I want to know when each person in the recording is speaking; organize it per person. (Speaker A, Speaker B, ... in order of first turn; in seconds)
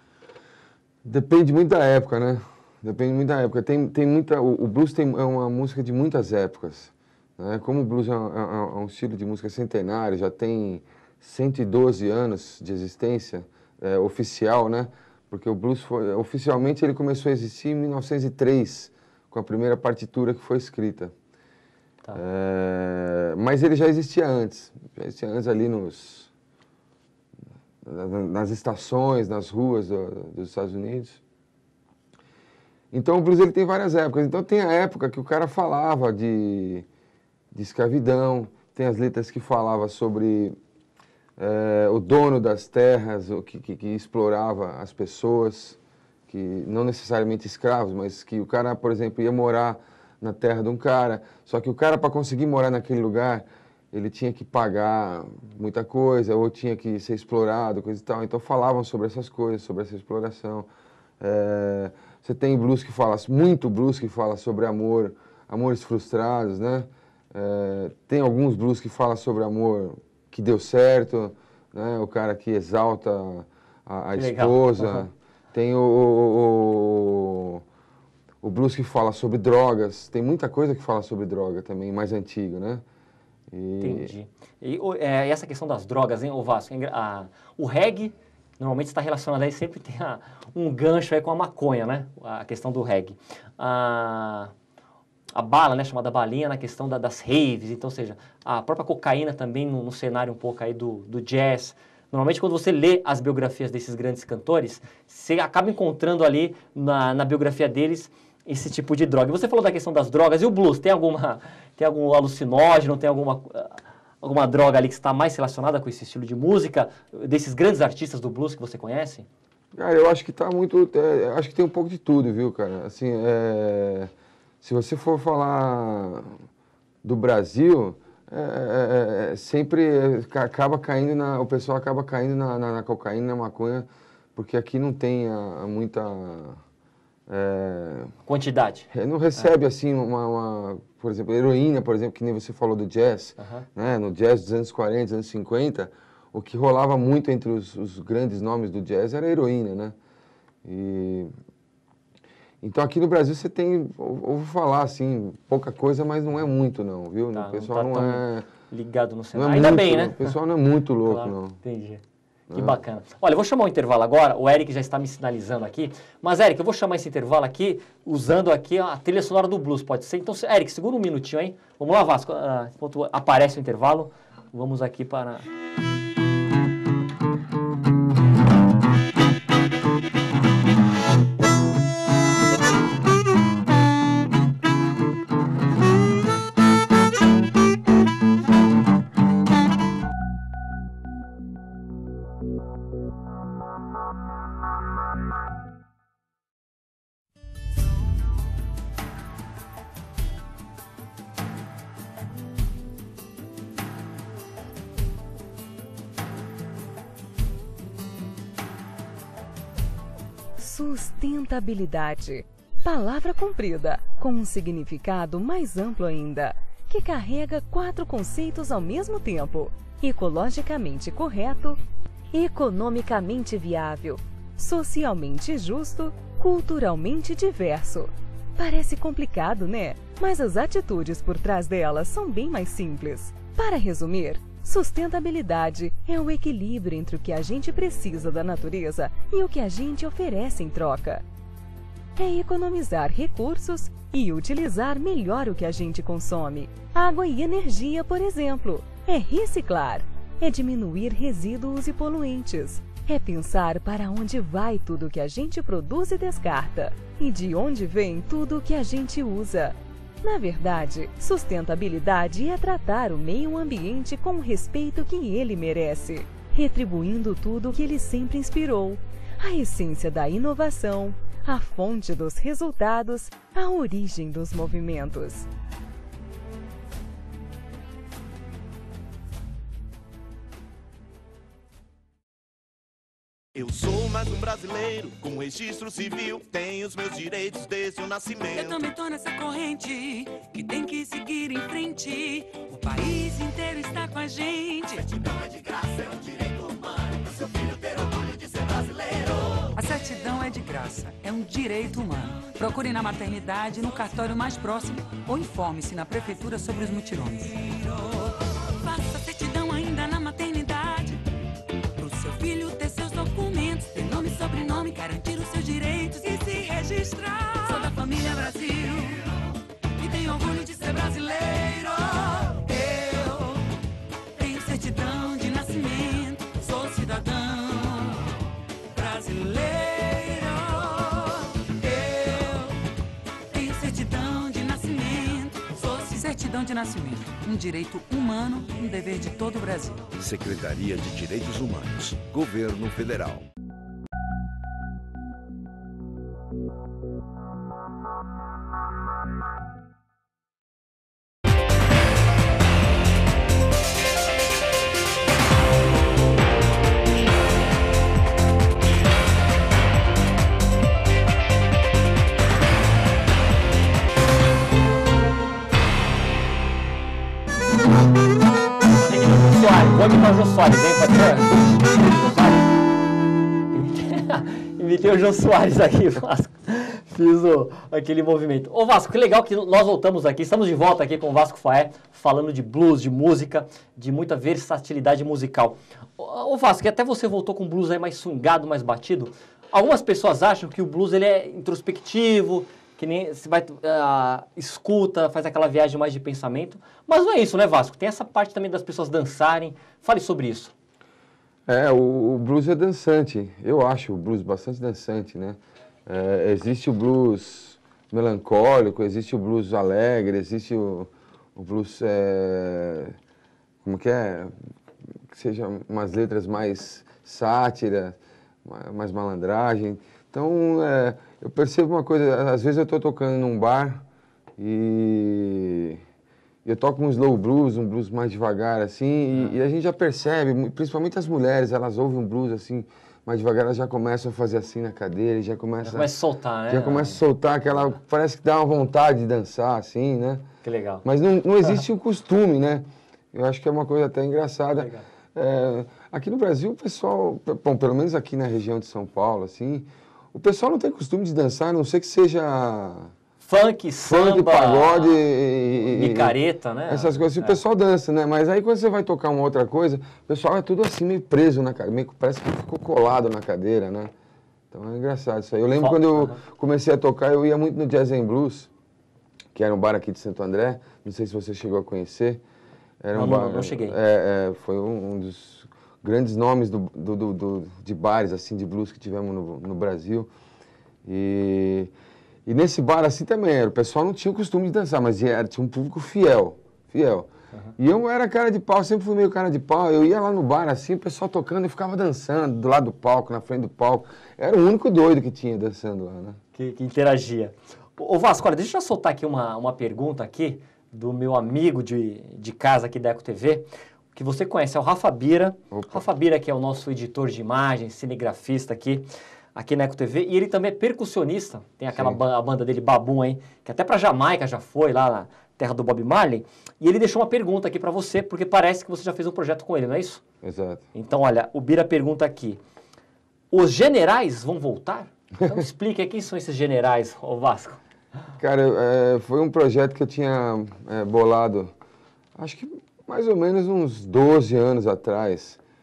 Speaker A: 1.0-21.1, 22.1-26.3, 27.8-31.2, 32.9-36.9, 37.5-40.6, 41.4-60.7, 61.2-77.6, 78.4-82.8, 83.5-84.1, 119.8-124.1, 124.6-126.3, 127.0-136.6, 137.3-138.1, 138.9-150.0, 150.6-151.3, 152.6-158.5, 159.3-161.6, 162.5-162.8, 401.7-413.2, 413.8-414.6, 415.3-424.1, 424.6-426.0, 426.6-436.1, 436.7-440.5, 441.0-453.1, 454.1-464.1, 464.7-468.7, 469.5-472.4, 473.0-480.3, 481.1-481.9, 482.5-496.4, 505.7-506.1, 511.9-512.2, 520.4-520.9, 528.4-531.7, 532.4-535.6
Speaker B: 74.2-75.1, 83.8-94.5, 95.3-119.3, 138.3-139.5, 143.4-143.7, 157.3-160.3, 161.1-162.0, 162.5-175.5, 368.9-372.7, 373.7-400.7, 435.8-437.2, 440.6-441.1, 444.8-445.1, 453.4-457.6, 465.8-466.4, 473.1-474.0, 496.6-520.2, 520.9-522.6, 523.5-527.8
Speaker C: 210.6-221.8, 222.3-241.2, 242.2-275.5
Speaker D: 283.6-288.8, 295.2-299.2
Speaker E: 288.5-295.1, 299.6-311.3, 312.0-319.4, 320.0-323.6, 324.4-328.3, 328.9-332.8, 333.5-340.1
Speaker F: 340.1-343.5